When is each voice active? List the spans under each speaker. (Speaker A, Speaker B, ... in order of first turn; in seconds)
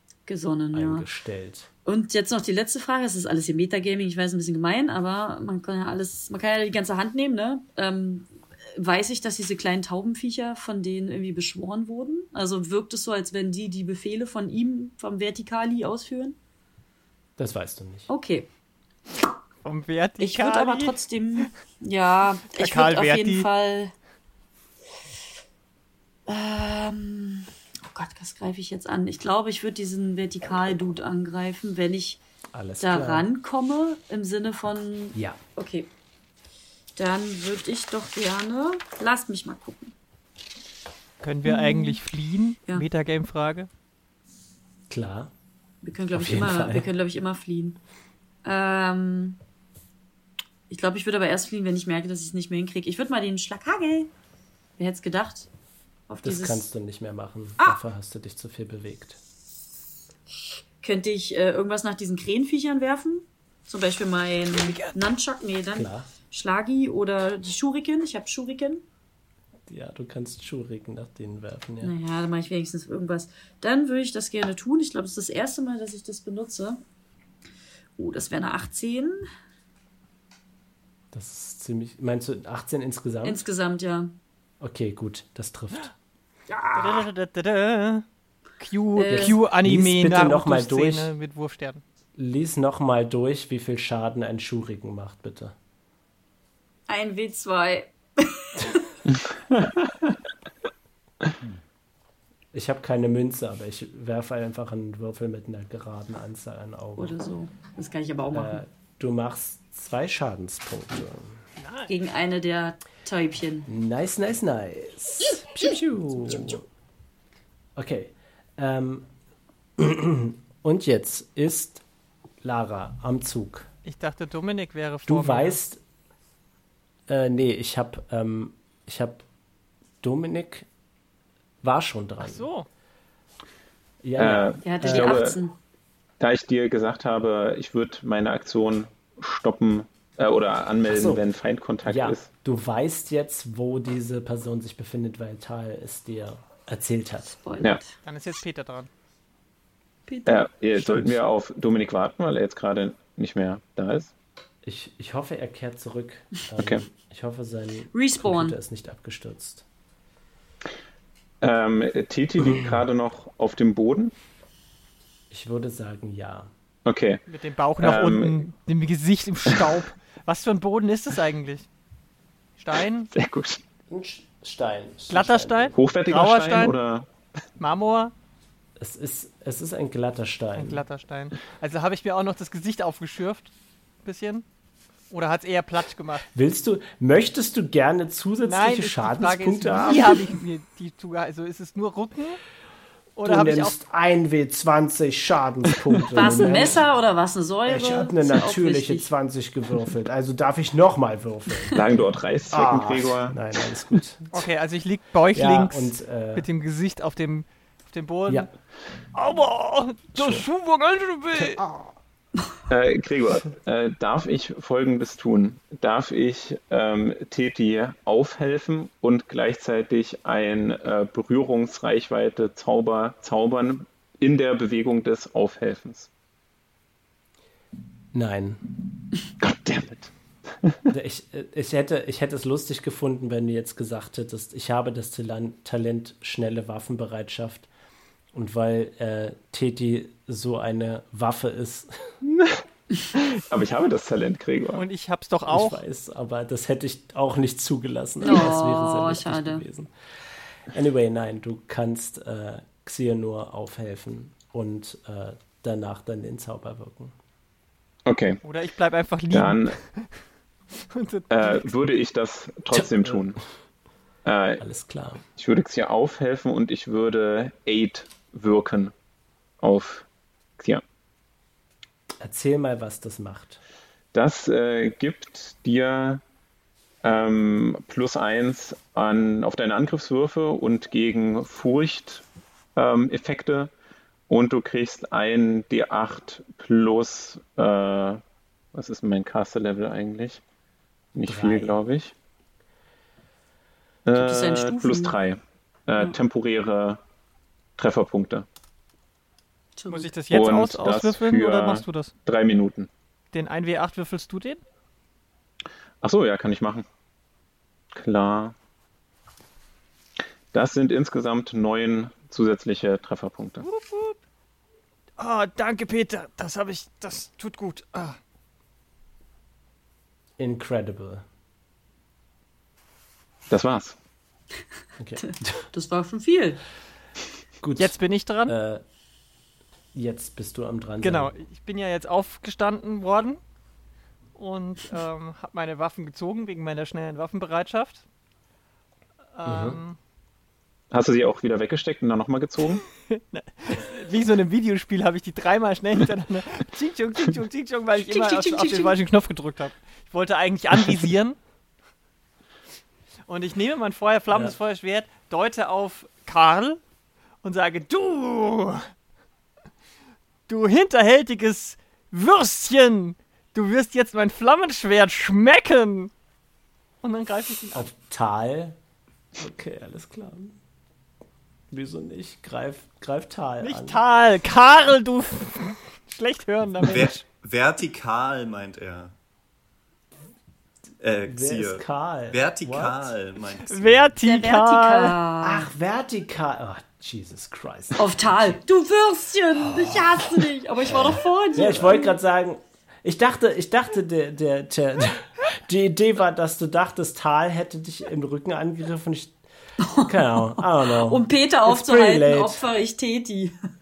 Speaker A: 0.3-1.1, 1.9-16.4, 18.1-18.5, 20.2-23.9, 26.3-32.2, 32.8-35.9, 37.0-39.9, 41.5-42.0, 45.8-47.8, 48.4-49.4, 50.7-54.1, 54.8-55.5, 56.1-56.7, 60.8-68.8, 71.8-76.8, 78.0-79.3, 83.2-84.2, 86.5-87.0, 89.0-89.4, 96.9-99.0, 107.0-108.6, 111.9-113.7, 134.6-135.6, 147.4-148.0, 150.1-150.5, 157.9-158.6, 196.1-199.1, 248.2-249.7, 294.2-295.2, 299.8-300.1, 325.2-326.6, 348.1-349.0, 384.2-385.7, 388.0-392.2, 399.8-403.6
Speaker B: 0.7-1.7, 17.4-18.1, 32.5-33.3, 35.1-35.4, 44.9-45.3, 46.1-46.9, 56.2-59.2, 65.8-66.1, 69.7-71.9, 81.1-83.5, 84.6-85.9, 89.1-91.1, 92.2-95.5, 102.5-107.2, 108.3-111.4, 113.7-116.6, 117.8-119.1, 119.8-121.8, 122.4-123.7, 125.0-125.8, 127.1-129.2, 130.0-130.7, 131.6-132.5, 134.0-135.3, 140.9-141.2, 141.8-147.4, 150.8-151.2, 154.6-159.7, 162.4-162.8, 165.3-166.5, 173.9-175.8, 178.8-180.8, 186.3-190.3, 193.2-196.8, 197.7-201.9, 202.5-204.5, 205.3-206.5, 210.1-210.5, 211.4-211.8, 228.1-228.6, 230.9-237.7, 238.3-242.2, 245.5-249.9, 250.7-257.1, 262.7-263.3, 264.6-265.2, 272.2-273.6, 291.2-291.8, 320.4-321.2, 325.0-325.6, 327.6-328.8, 329.9-331.3, 339.4-339.8, 367.7-368.8, 369.4-370.6, 371.7-374.0, 381.3-383.1, 385.4-388.6, 389.8-390.1, 391.5-399.4, 400.0-402.6
Speaker C: 19.6-21.5, 22.5-23.5, 41.2-43.7, 86.8-88.0, 88.6-91.8, 111.6-111.9, 123.8-125.6, 132.2-132.7, 148.0-148.9, 167.3-171.7, 172.6-173.1, 175.1-176.8, 177.6-178.1, 180.6-183.5, 184.0-184.4, 185.1-186.3, 188.4-192.4, 193.2-193.7, 204.3-208.5, 209.1-211.7, 244.7-245.8, 258.4-260.2, 260.9-261.7, 299.9-302.1, 303.3-304.6, 313.6-314.2, 315.2-318.2, 327.8-328.6, 331.0-333.4, 334.4-338.1, 339.3-340.0, 343.0-351.4, 353.3-356.8, 357.4-358.9, 360.5-366.1, 367.0-367.9, 373.6-377.1, 383.7-385.2
Speaker D: 134.2-135.4, 136.2-142.3, 150.3-154.1, 161.4-164.1, 166.9-167.2, 167.8-168.4, 173.1-173.6, 175.8-177.1, 201.7-203.4, 212.7-226.1, 229.4-230.1, 243.2-244.8, 258.1-258.4, 259.3-259.8, 261.3-263.4, 264.2-264.6, 265.4-268.9, 269.6-270.1, 274.1-276.2, 277.0-282.2, 282.8-283.7, 284.3-288.2, 288.7-290.4, 291.1-292.1, 294.1-297.0, 297.8-298.5, 300.3-302.9, 306.0-306.9, 307.9-308.6, 310.5-313.6, 323.5-324.0, 340.9-342.8
Speaker E: 376.8-379.1, 381.0-384.1